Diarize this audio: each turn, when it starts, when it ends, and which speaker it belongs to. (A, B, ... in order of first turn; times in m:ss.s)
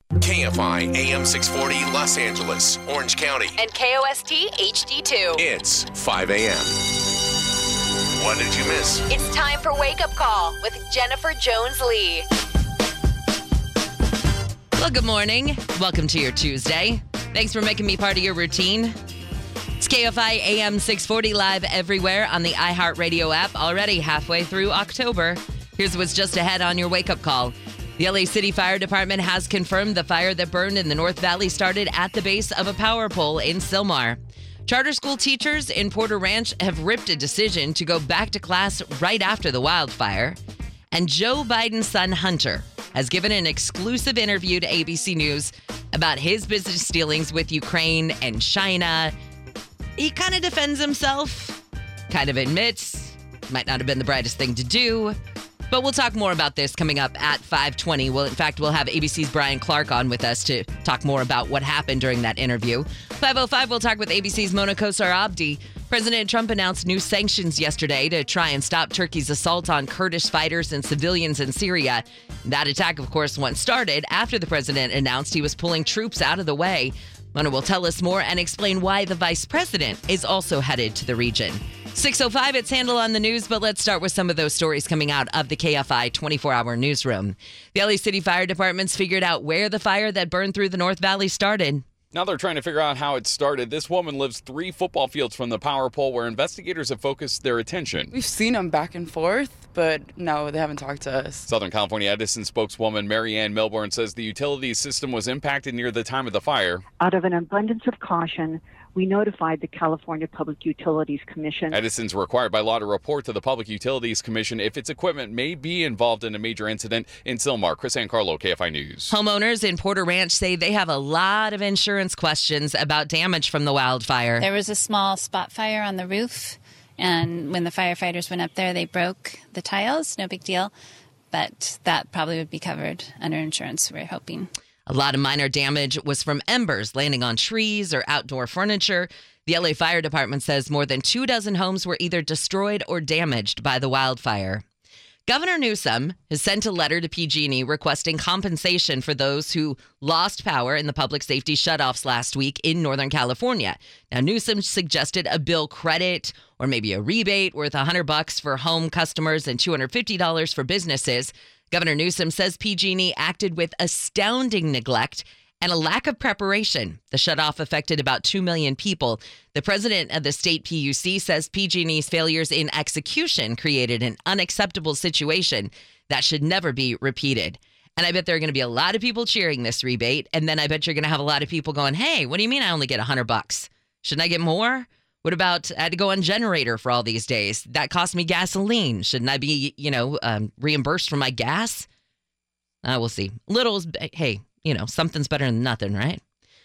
0:00.2-0:03.6 A
0:03.6-0:05.3 B
0:05.3-0:06.8 A
0:08.1-0:09.0 A
0:09.1-0:12.2 B
0:14.8-0:19.0 C
0:19.8-0:40.4 C
0:40.9-0:49.1 C
0:50.0-0:55.2 C
0:55.7-1:31.8 C
1:32.1-1:38.1 D
1:38.1-1:41.4 E
1:41.4-1:46.8 D
1:47.0-1:51.8 F
1:51.7-1:59.1 D
1:59.1-2:04.4 C
2:04.4-2:10.7 G
2:11.3-2:14.5 G
2:14.9-2:24.6 C
2:25.3-3:11.9 C
3:12.8-3:16.2 C